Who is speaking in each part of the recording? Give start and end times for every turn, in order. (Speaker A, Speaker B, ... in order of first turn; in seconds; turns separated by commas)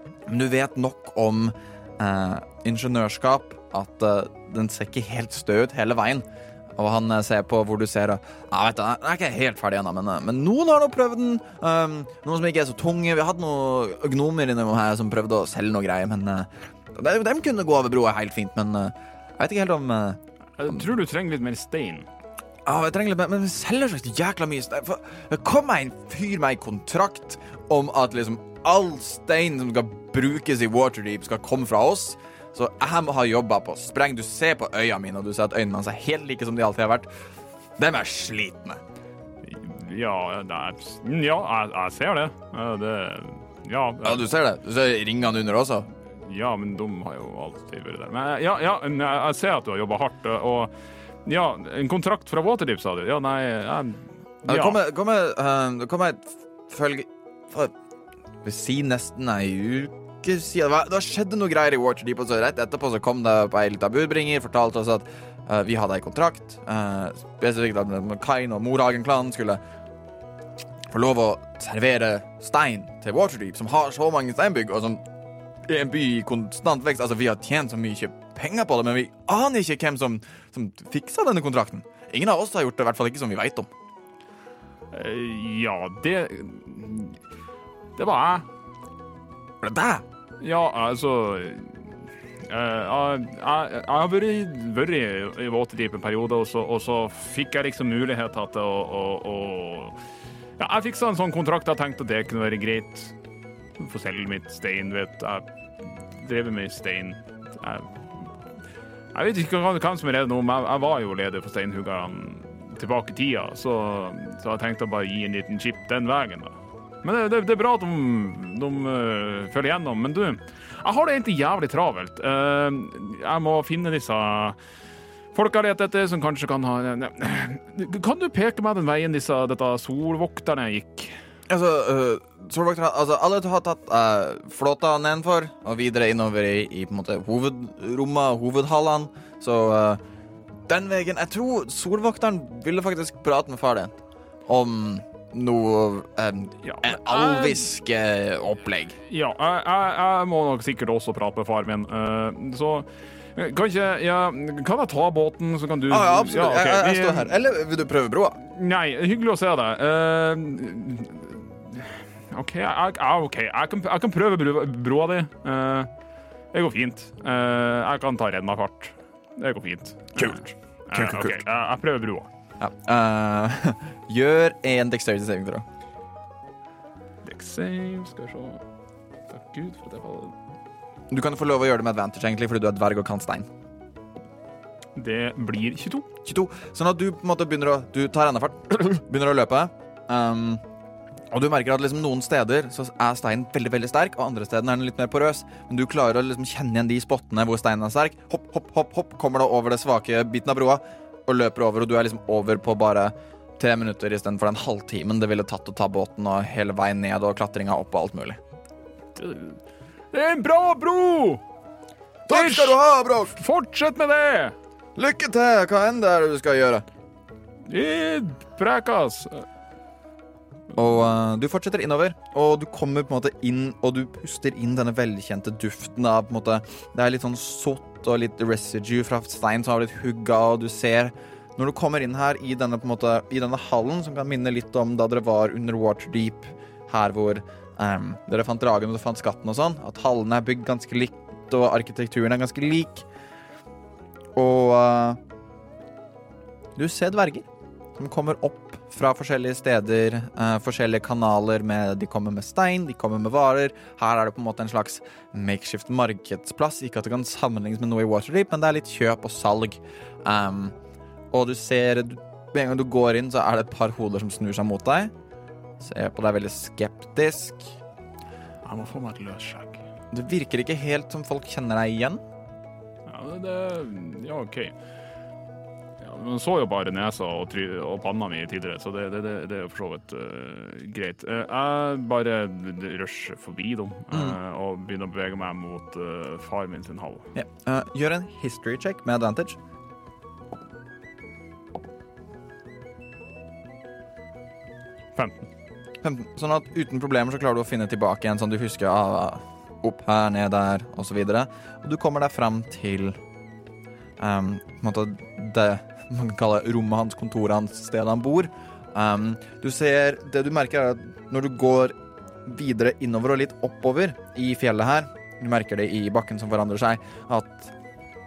Speaker A: 0.3-6.2, Speaker A: 6.8-20.9, Speaker B: 20.6-22.1, Speaker A: 22.6-37.1, Speaker A: 37.8-38.8, Speaker B: 39.4-44.2, Speaker A: 44.0-45.9, Speaker B: 46.2-50.7, Speaker B: 51.2-54.8, Speaker A: 54.5-57.7, Speaker A: 58.4-69.6, Speaker A: 70.9-75.0, Speaker A: 75.7-83.7, Speaker B: 84.9-87.2, Speaker B: 88.0-88.5, Speaker A: 89.6-90.0, Speaker B: 90.4-91.8, Speaker B: 92.5-100.0, Speaker B: 100.6-103.1, Speaker B: 103.8-108.3, Speaker B: 109.1-124.6, Speaker B: 125.3-131.2, Speaker A: 131.5-140.0, Speaker A: 140.7-149.0, Speaker B: 146.6-147.7, Speaker B: 149.1-157.3, Speaker A: 155.9-158.4, Speaker B: 158.4-165.9, Speaker B: 166.5-172.3, Speaker A: 170.9-171.4, Speaker A: 172.6-175.6, Speaker B: 177.2-178.6, Speaker B: 179.3-180.3, Speaker A: 181.1-183.5, Speaker B: 184.9-186.1, Speaker A: 186.2-190.6, Speaker A: 191.3-208.4, Speaker B: 209.1-209.6, Speaker B: 210.1-211.4, Speaker A: 212.3-213.4, Speaker B: 212.3-214.5, Speaker A: 215.0-216.8, Speaker B: 217.7-219.4, Speaker A: 220.7-243.0, Speaker A: 244.3-245.2, Speaker A: 246.8-260.7, Speaker A: 261.3-265.1, Speaker A: 265.8-267.8, Speaker B: 268.6-269.8, Speaker A: 270.1-272.2, Speaker B: 273.1-274.7, Speaker B: 276.0-287.3, Speaker A: 284.1-284.4, Speaker A: 287.3-289.6, Speaker B: 295.1-295.4, Speaker A: 296.0-303.2, Speaker A: 304.2-311.9, Speaker A: 312.4-317.7